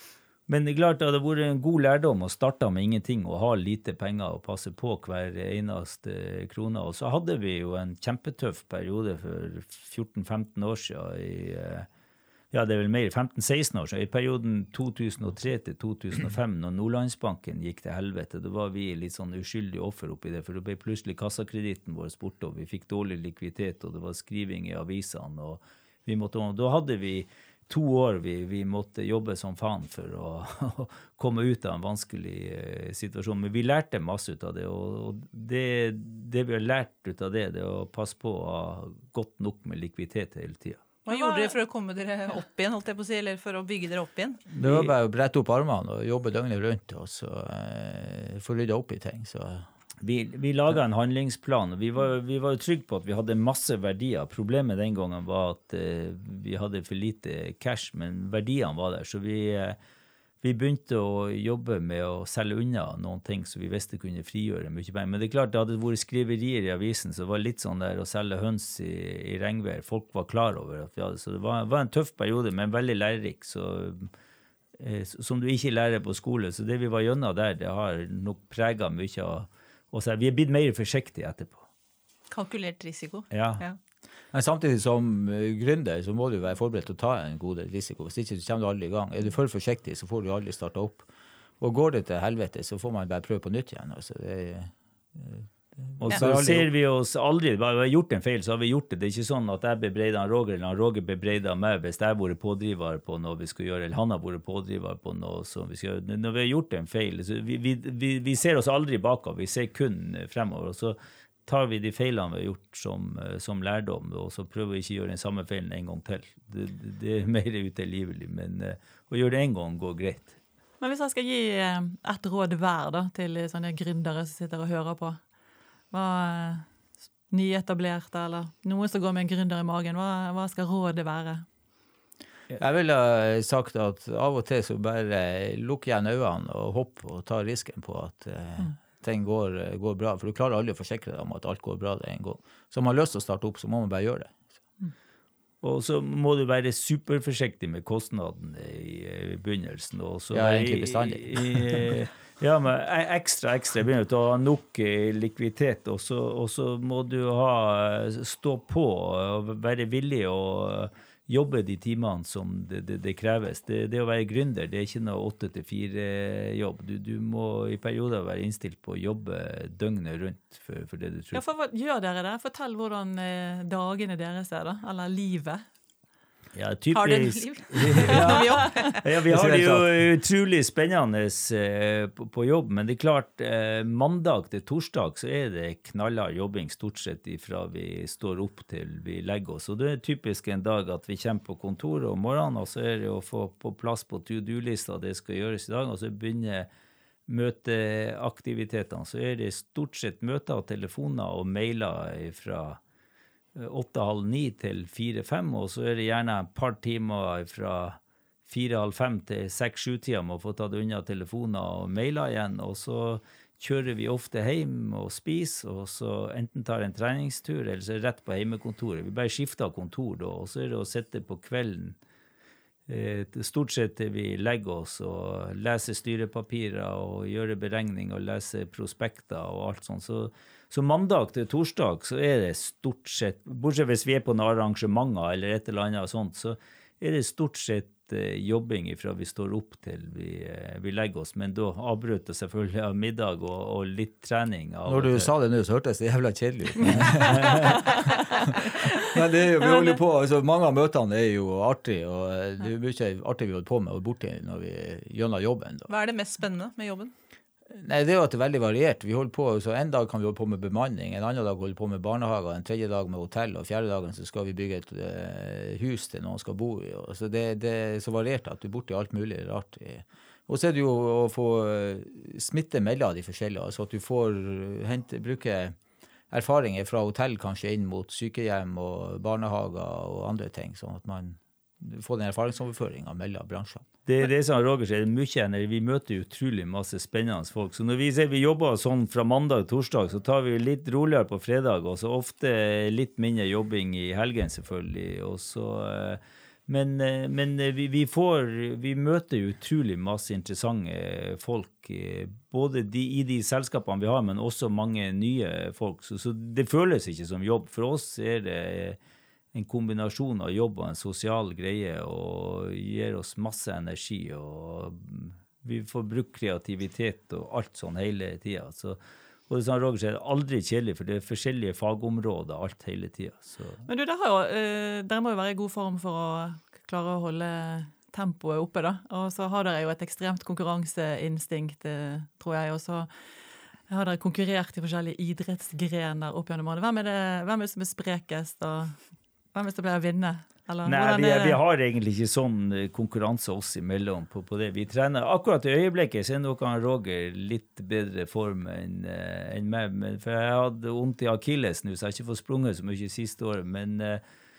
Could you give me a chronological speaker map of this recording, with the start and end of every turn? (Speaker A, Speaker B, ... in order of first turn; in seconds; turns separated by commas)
Speaker A: 0.5-11.9, Speaker A: 12.5-40.8, Speaker B: 41.0-44.4, Speaker C: 41.1-41.5, Speaker A: 44.5-44.9, Speaker D: 44.5-49.6, Speaker A: 50.0-59.8, Speaker A: 60.4-74.1, Speaker A: 74.8-81.6, Speaker B: 82.3-83.8, Speaker A: 83.3-83.6, Speaker D: 84.3-91.0, Speaker D: 91.6-96.7, Speaker A: 96.0-120.4, Speaker C: 120.8-125.2, Speaker C: 125.9-126.7, Speaker C: 127.3-131.4, Speaker D: 132.5-144.4, Speaker A: 145.6-171.4, Speaker D: 150.3-152.0, Speaker C: 171.3-175.6, Speaker A: 176.5-196.7, Speaker B: 176.9-179.0, Speaker D: 179.3-179.9, Speaker A: 197.3-202.8, Speaker A: 203.5-222.0, Speaker A: 222.9-245.3, Speaker D: 244.8-255.9, Speaker A: 246.8-247.8, Speaker B: 255.9-257.1, Speaker D: 257.7-275.8, Speaker D: 276.3-283.8, Speaker A: 284.1-309.0, Speaker A: 309.5-319.0, Speaker A: 319.5-323.8, Speaker C: 323.9-333.1, Speaker C: 333.9-339.0, Speaker C: 339.5-341.6, Speaker A: 340.9-354.2